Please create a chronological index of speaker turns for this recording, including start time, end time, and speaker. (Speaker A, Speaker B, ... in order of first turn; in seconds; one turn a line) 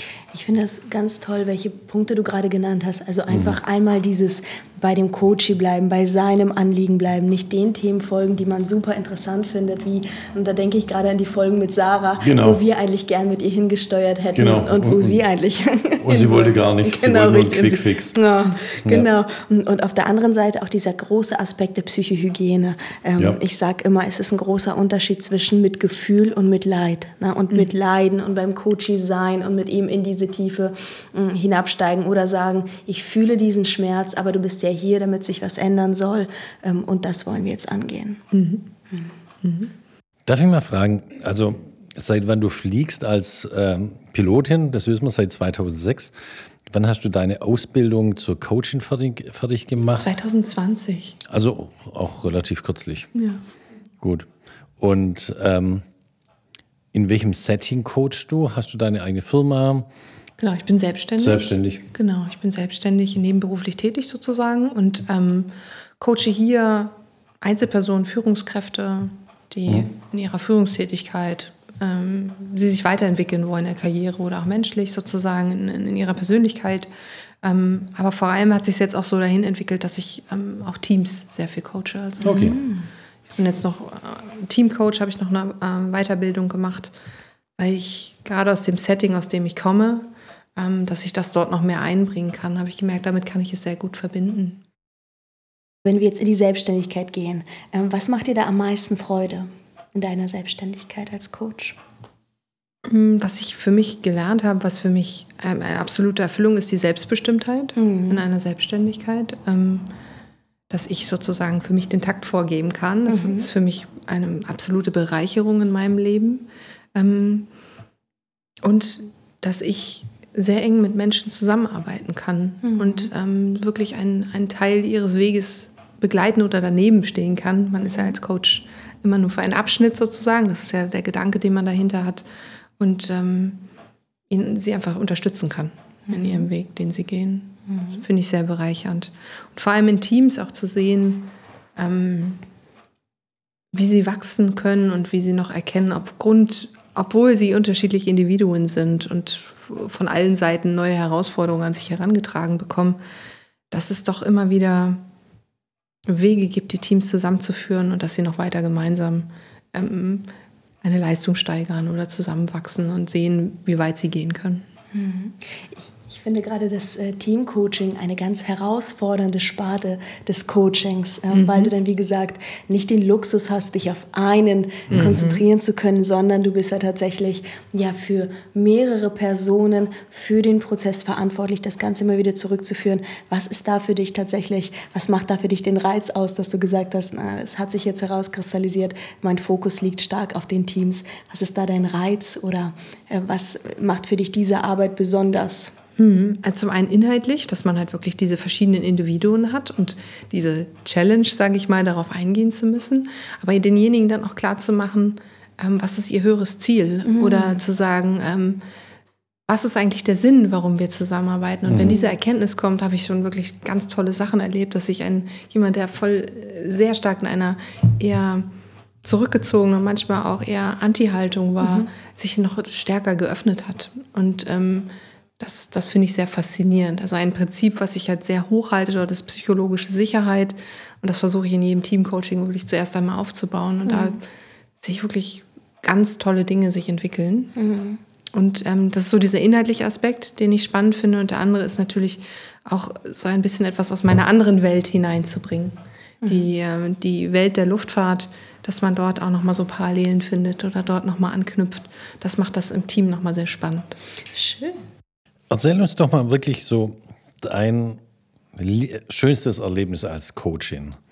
Speaker A: 0.3-38.2
Speaker B: 3.3-3.6
Speaker B: 12.2-12.6
Speaker B: 14.3-15.2
Speaker B: 16.0-18.2
Speaker B: 18.8-19.1
Speaker C: 38.3-38.7
Speaker C: 39.4-39.7
Speaker B: 40.2-46.1
Speaker B: 46.7-50.1
Speaker C: 50.0-51.2
Speaker B: 51.3-53.1
Speaker C: 53.1-53.4
Speaker B: 54.0-54.2
Speaker B: 54.8-55.8
Speaker B: 56.9-59.9
Speaker C: 60.4-76.9
Speaker B: 61.2-61.8
Speaker C: 77.4-82.6
Speaker B: 82.2-82.6
Speaker A: 82.2-82.9
Speaker C: 83.3-86.9
Speaker C: 87.6-94.6
Speaker A: 95.8-101.8
Speaker C: 102.9-109.9
Speaker A: 107.8-108.2
Speaker C: 110.7-117.5
Speaker A: 113.1-113.5
Speaker C: 118.6-132.2
Speaker A: 122.6-123.1
Speaker C: 132.8-133.6
Speaker C: 134.3-142.4
Speaker C: 143.7-153.0
Speaker C: 153.7-155.0
Speaker C: 156.1-160.3
Speaker C: 160.8-164.6
Speaker A: 164.9-195.8
Speaker C: 171.3-171.7
Speaker C: 174.9-175.4
Speaker C: 196.0-208.6
Speaker A: 207.0-207.6
Speaker C: 209.5-218.5
Speaker B: 211.7-212.0
Speaker C: 219.0-234.2
Speaker A: 221.6-221.9
Speaker A: 233.9-234.2
Speaker C: 234.8-237.5
Speaker A: 237.6-238.0
Speaker C: 238.3-254.0
Speaker A: 246.2-246.5
Speaker A: 254.3-254.8
Speaker B: 255.5-258.0
Speaker B: 258.5-261.0